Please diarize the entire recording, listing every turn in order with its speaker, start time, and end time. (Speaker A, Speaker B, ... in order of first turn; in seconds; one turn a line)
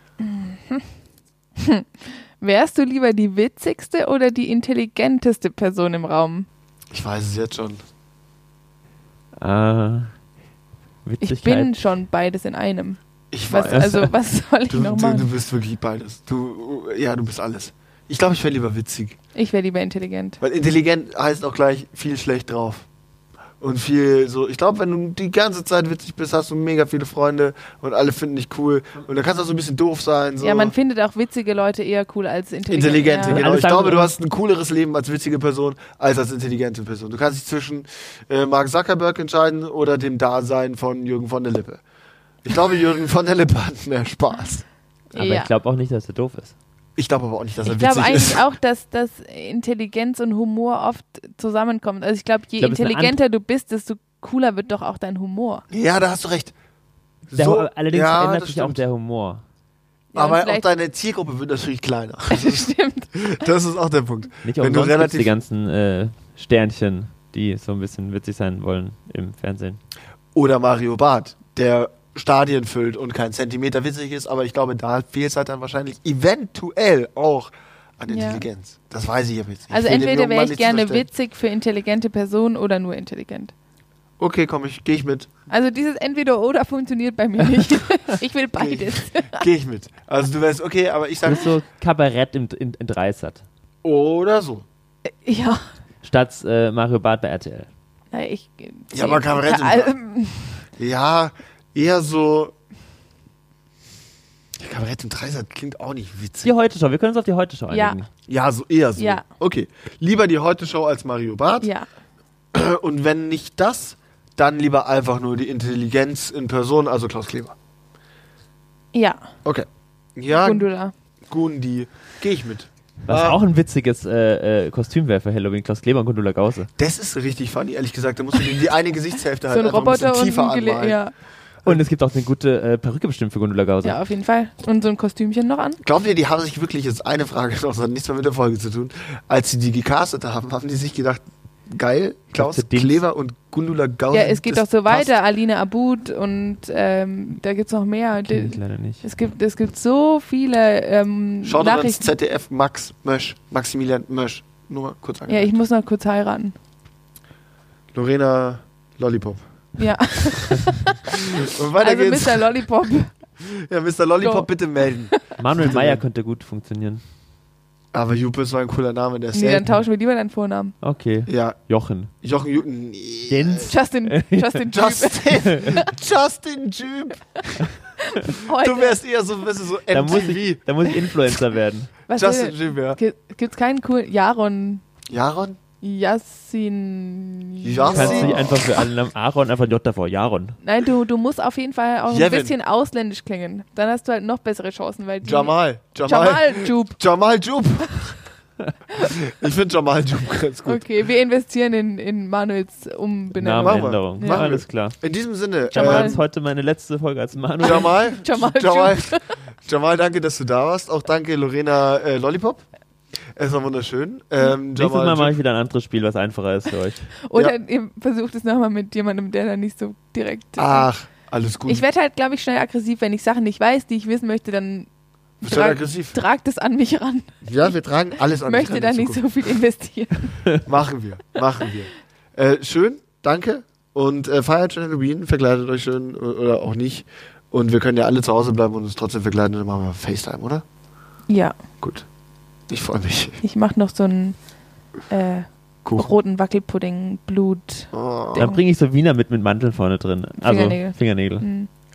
Speaker A: 0.2-0.8
Speaker A: 1.6-6.5
Speaker B: 6.9-7.8
Speaker C: 9.4-10.1
Speaker C: 11.1-11.7
Speaker A: 11.2-15.3
Speaker B: 13.3-14.0
Speaker C: 13.7-14.1
Speaker B: 14.7-19.2
Speaker A: 19.4-20.4
Speaker B: 20.4-22.9
Speaker B: 23.6-30.7
Speaker A: 30.4-33.4
Speaker B: 32.7-41.8
Speaker C: 33.2-34.1
Speaker B: 42.4-44.6
Speaker A: 45.1-45.5
Speaker C: 45.1-46.5
Speaker B: 47.0-48.4
Speaker A: 47.6-55.6
Speaker C: 52.6-53.2
Speaker B: 55.7-56.5
Speaker B: 57.3-58.8
Speaker C: 57.4-59.4
Speaker A: 60.1-60.7
Speaker B: 60.1-65.3
Speaker A: 62.3-63.1
Speaker C: 64.4-69.8
Speaker B: 70.3-81.1
Speaker A: 78.1-78.5
Speaker A: 79.7-83.5
Speaker B: 84.2-85.3
Speaker A: 85.5-89.5
Speaker B: 88.6-91.5
Speaker C: 91.3-93.4
Speaker B: 93.8-94.7
Speaker A: 95.1-95.7
Speaker C: 96.0-97.7
Speaker A: 98.1-100.7
Speaker B: 98.9-99.9
Speaker B: 100.8-102.5
Speaker B: 104.6-106.5
Speaker C: 106.4-108.1
Speaker A: 107.7-108.0
Speaker B: 108.3-111.7
Speaker A: 109.0-109.2
Speaker A: 111.6-111.9
Speaker B: 112.5-117.5
Speaker A: 118.9-119.3
Speaker B: 119.4-120.7
Speaker A: 120.3-120.9
Speaker B: 121.3-123.4
Speaker C: 123.1-126.7
Speaker B: 126.8-131.0
Speaker A: 129.5-131.1
Speaker C: 131.6-134.0
Speaker A: 133.8-135.8
Speaker B: 135.8-145.1
Speaker C: 142.3-143.0
Speaker A: 144.1-152.1
Speaker C: 148.2-149.0
Speaker B: 151.4-155.5
Speaker A: 155.3-156.6
Speaker B: 157.9-159.4
Speaker A: 159.8-161.1
Speaker B: 161.1-162.6
Speaker A: 161.8-163.1
Speaker B: 163.4-166.0
Speaker A: 164.2-164.5
Speaker C: 165.4-167.0
Speaker B: 167.9-169.7
Speaker A: 169.3-170.8
Speaker C: 170.8-172.1
Speaker B: 171.3-171.6
Speaker B: 172.2-173.7
Speaker C: 173.3-174.6
Speaker A: 173.7-175.9
Speaker B: 174.7-177.7
Speaker A: 178.0-179.0
Speaker B: 178.4-180.6
Speaker C: 179.9-181.9
Speaker A: 182.1-184.8
Speaker B: 182.1-183.0
Speaker B: 185.1-185.6
Speaker A: 185.8-188.6
Speaker B: 187.6-188.5
Speaker C: 187.9-190.6
Speaker A: 190.6-197.0
Speaker B: 192.1-192.5
Speaker B: 195.2-198.2
Speaker B: 199.0-200.8
Speaker A: 200.7-204.5
Speaker C: 203.4-205.0
Speaker B: 203.6-206.2
Speaker A: 205.7-206.2
Speaker C: 205.7-207.9
Speaker B: 207.6-212.6
Speaker A: 207.7-209.3
Speaker B: 213.4-215.4
Speaker C: 214.8-217.1
Speaker A: 217.3-220.9
Speaker B: 220.6-221.8
Speaker A: 221.7-224.9
Speaker B: 225.4-226.2
Speaker A: 225.4-227.7
Speaker B: 227.4-229.2
Speaker A: 228.4-230.6
Speaker B: 230.6-240.6
Speaker A: 241.3-241.6
Speaker B: 241.8-242.1
Speaker B: 242.7-243.4
Speaker A: 243.4-244.4
Speaker A: 245.1-248.6
Speaker B: 245.8-246.1
Speaker B: 247.9-248.5
Speaker C: 248.4-251.4
Speaker A: 250.4-251.7